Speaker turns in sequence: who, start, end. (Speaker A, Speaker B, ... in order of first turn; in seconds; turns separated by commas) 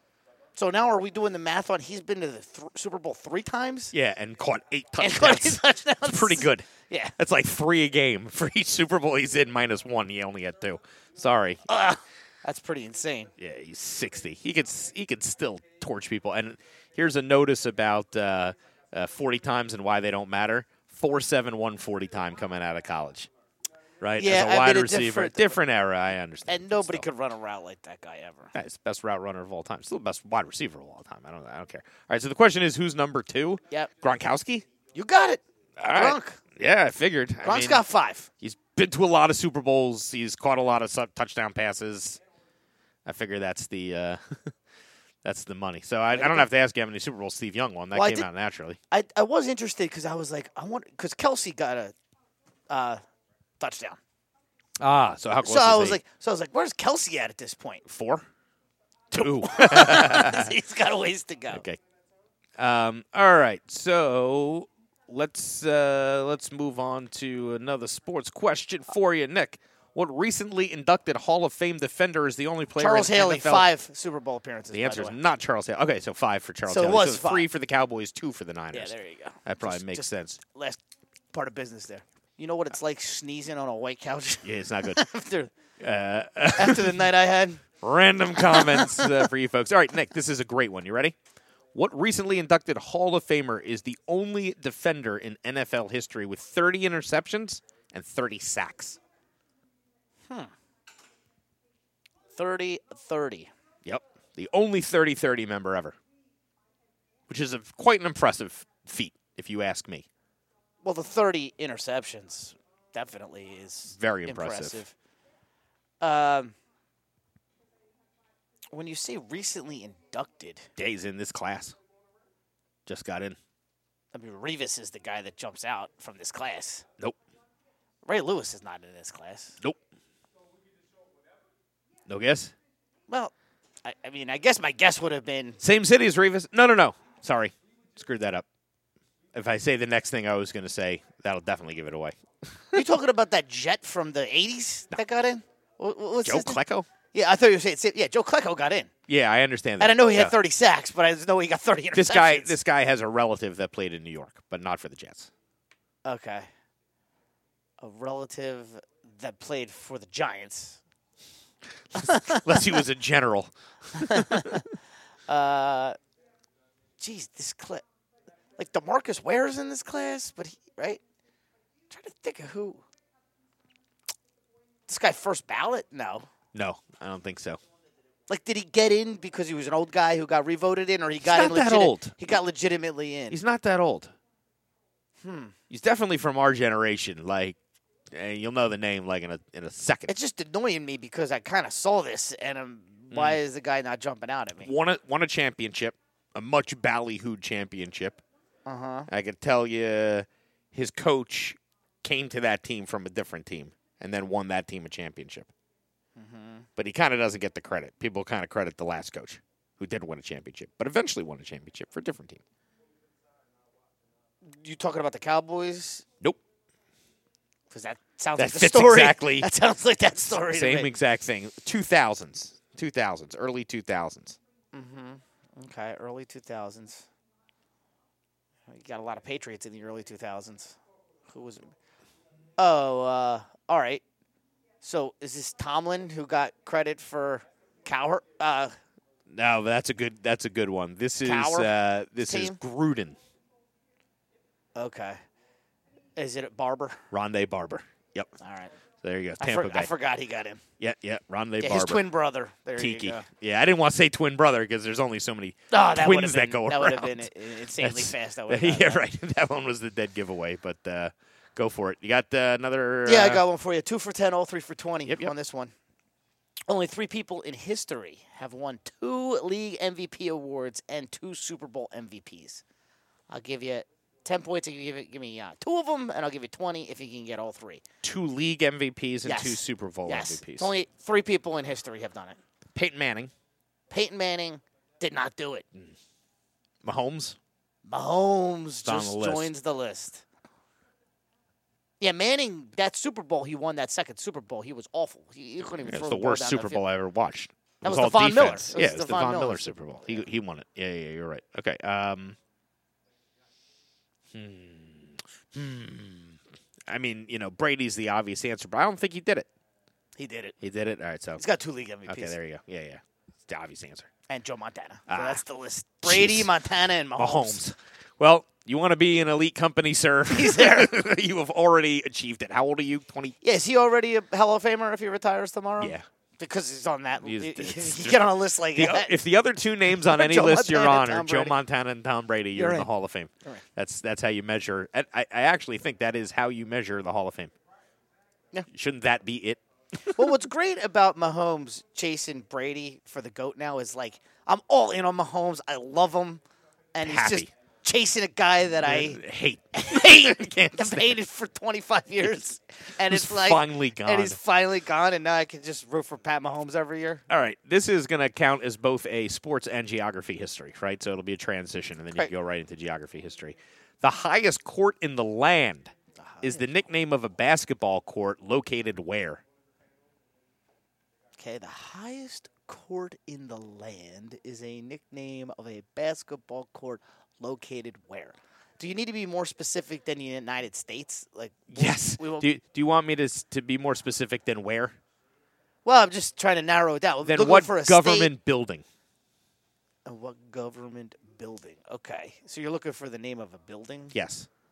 Speaker A: 0.6-3.9, Speaker B: 3.9-11.6, Speaker A: 5.0-7.1, Speaker A: 11.7-13.3, Speaker B: 13.4-23.3, Speaker B: 24.0-27.1, Speaker A: 24.2-25.6, Speaker A: 26.5-28.5, Speaker B: 28.5-34.7, Speaker A: 35.0-36.4, Speaker B: 35.8-37.9, Speaker A: 37.4-38.3, Speaker B: 38.4-42.2, Speaker B: 43.1-44.5, Speaker B: 45.2-48.8, Speaker A: 46.1-46.5, Speaker A: 48.0-48.3, Speaker A: 48.9-52.0, Speaker A: 52.7-53.0, Speaker A: 53.6-54.0, Speaker B: 54.8-56.0, Speaker A: 55.4-57.8, Speaker B: 57.9-58.3, Speaker B: 59.1-60.6, Speaker A: 59.1-61.6, Speaker B: 61.5-61.8, Speaker B: 62.6-73.7, Speaker A: 72.8-75.2, Speaker B: 74.7-80.4, Speaker A: 76.7-77.5, Speaker A: 78.7-80.8, Speaker A: 81.3-85.5, Speaker B: 84.4-85.0, Speaker B: 85.8-87.1, Speaker A: 86.6-87.6, Speaker B: 87.8-91.2, Speaker A: 88.4-89.2, Speaker B: 91.7-99.0, Speaker A: 102.3-103.5, Speaker B: 103.8-106.0, Speaker B: 107.3-110.1, Speaker A: 110.8-114.9, Speaker B: 113.9-114.8, Speaker A: 116.0-116.6, Speaker A: 118.7-120.7, Speaker B: 120.8-121.8, Speaker B: 122.9-123.4, Speaker A: 124.1-126.8, Speaker A: 128.1-129.6, Speaker B: 132.1-132.5, Speaker A: 133.8-135.6, Speaker B: 135.6-138.4, Speaker B: 139.3-142.9, Speaker A: 142.7-146.6, Speaker B: 146.2-146.9, Speaker A: 147.1-148.9, Speaker B: 149.1-150.4, Speaker A: 149.8-152.6, Speaker B: 151.9-155.3, Speaker A: 156.1-156.5, Speaker A: 157.8-160.8, Speaker B: 161.9-164.6, Speaker A: 162.0-162.7, Speaker A: 163.9-164.7, Speaker A: 165.3-166.0, Speaker A: 167.0-167.8, Speaker A: 168.6-171.0, Speaker A: 171.9-172.8, Speaker A: 174.9-176.3, Speaker B: 176.5-177.6, Speaker A: 178.3-183.4, Speaker B: 181.2-182.2, Speaker B: 183.3-184.1, Speaker A: 185.2-185.6, Speaker B: 185.7-187.6, Speaker B: 188.1-190.1, Speaker A: 190.1-194.7, Speaker B: 193.1-193.4, Speaker B: 194.6-198.2, Speaker A: 198.7-199.1, Speaker B: 199.1-205.5, Speaker A: 206.2-206.7, Speaker B: 206.8-212.4, Speaker A: 214.4-216.1, Speaker A: 217.7-220.9, Speaker B: 218.4-219.5, Speaker B: 220.4-224.4, Speaker A: 224.7-227.1, Speaker A: 228.7-230.8, Speaker A: 231.3-231.7, Speaker A: 232.6-234.0, Speaker A: 234.8-238.8, Speaker B: 239.3-243.2, Speaker A: 241.2-242.6, Speaker A: 244.8-245.2, Speaker A: 246.2-247.0, Speaker B: 247.1-248.3, Speaker A: 248.4-248.7, Speaker B: 249.0-249.9, Speaker A: 249.4-250.6, Speaker B: 250.8-252.0, Speaker A: 251.6-253.2, Speaker B: 252.8-263.4, Speaker A: 255.7-259.1, Speaker A: 263.1-265.7, Speaker B: 265.1-265.3, Speaker A: 266.7-272.6, Speaker A: 273.3-277.8, Speaker B: 278.0-280.7, Speaker A: 279.2-282.4, Speaker B: 282.7-283.3, Speaker A: 283.9-285.6, Speaker B: 286.8-287.4, Speaker A: 287.9-290.2, Speaker B: 288.9-289.5, Speaker A: 292.0-296.8, Speaker B: 295.8-302.4, Speaker A: 297.8-300.2, Speaker B: 304.3-309.5, Speaker A: 310.2-310.6, Speaker B: 310.6-311.4, Speaker A: 311.4-312.4, Speaker B: 312.1-314.1, Speaker A: 314.3-317.6, Speaker B: 315.1-315.4, Speaker B: 316.0-316.5, Speaker B: 317.2-323.4, Speaker A: 320.3-320.9, Speaker A: 323.4-329.1, Speaker B: 325.8-326.1, Speaker B: 327.2-337.5, Speaker A: 329.9-331.6, Speaker A: 332.5-332.9, Speaker B: 338.7-340.3, Speaker A: 340.1-346.4, Speaker A: 346.9-349.2, Speaker B: 347.0-347.5, Speaker B: 348.7-351.2, Speaker A: 349.7-357.2, Speaker B: 353.1-354.4, Speaker B: 357.3-369.4, Speaker A: 366.2-366.7, Speaker A: 371.4-382.5, Speaker B: 381.7-385.0, Speaker A: 385.9-388.3, Speaker B: 387.2-388.9, Speaker A: 390.0-394.1, Speaker B: 394.1-394.5